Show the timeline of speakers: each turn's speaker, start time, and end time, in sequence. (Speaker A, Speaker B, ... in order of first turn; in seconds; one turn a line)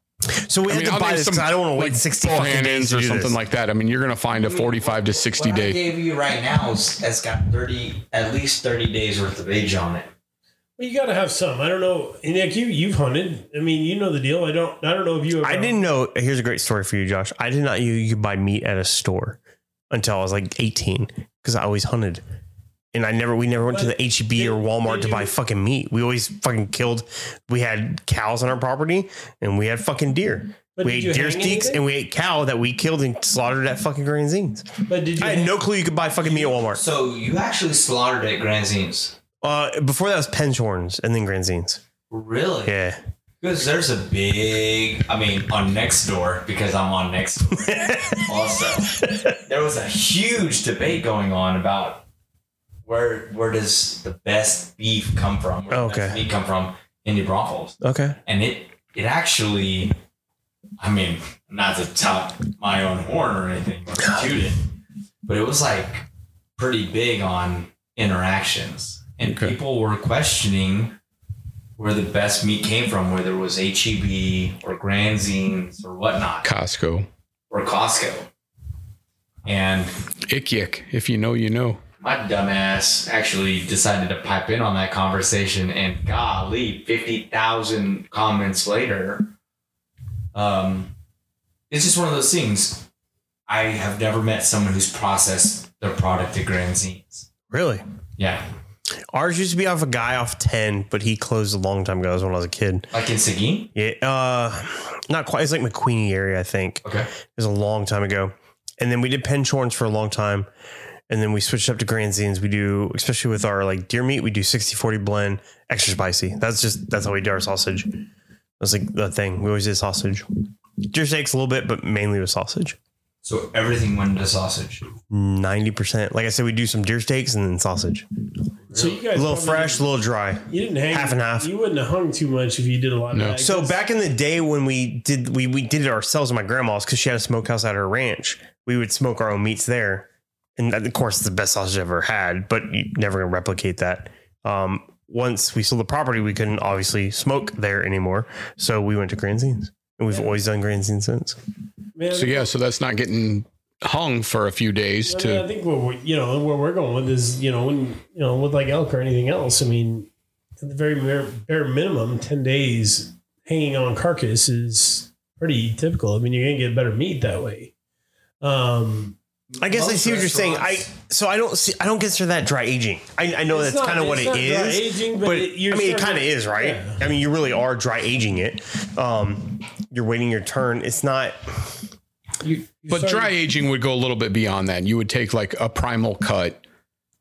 Speaker A: 0.4-3.4
Speaker B: 0.7-5.8
Speaker C: 4.4-10.1
Speaker D: 10.8-15.8
Speaker A: 15.4-19.4
Speaker A: 19.9-22.2
Speaker A: 22.9-36.8
Speaker D: 23.7-25.3
Speaker D: 30.8-31.8
Speaker D: 34.9-35.6
Speaker C: 36.2-39.1
Speaker A: 39.4-41.8
Speaker C: 42.1-42.7
Speaker A: 42.6-43.0
Speaker C: 43.4-52.0
Speaker A: 47.7-48.3
Speaker C: 52.8-59.9
Speaker A: 55.7-56.2
Speaker A: 57.8-58.2
Speaker C: 60.8-64.6
Speaker A: 64.0-64.3
Speaker C: 65.2-66.0
Speaker C: 66.6-71.0
Speaker B: 69.2-69.5
Speaker C: 71.8-76.5
Speaker B: 76.4-77.1
Speaker C: 77.5-78.3
Speaker C: 79.4-79.9
Speaker B: 80.3-81.8
Speaker C: 82.0-89.3
Speaker C: 90.3-90.9
Speaker C: 91.7-92.8
Speaker C: 93.5-97.3
Speaker A: 97.5-97.8
Speaker C: 98.2-98.4
Speaker A: 99.1-102.9
Speaker C: 102.9-103.7
Speaker A: 103.7-106.8
Speaker A: 107.3-110.5
Speaker A: 111.1-118.0
Speaker A: 118.6-120.3
Speaker A: 120.8-122.8
Speaker C: 123.2-124.8
Speaker A: 125.1-128.1
Speaker D: 128.7-129.8
Speaker A: 129.1-131.5
Speaker D: 130.5-133.8
Speaker B: 133.1-133.4
Speaker A: 133.4-151.4
Speaker D: 151.9-152.5
Speaker B: 152.1-155.4
Speaker D: 155.0-160.1
Speaker D: 160.6-167.7
Speaker D: 168.4-169.1
Speaker C: 169.5-170.8
Speaker A: 169.6-181.6
Speaker D: 173.5-177.0
Speaker D: 182.4-183.3
Speaker B: 182.9-186.6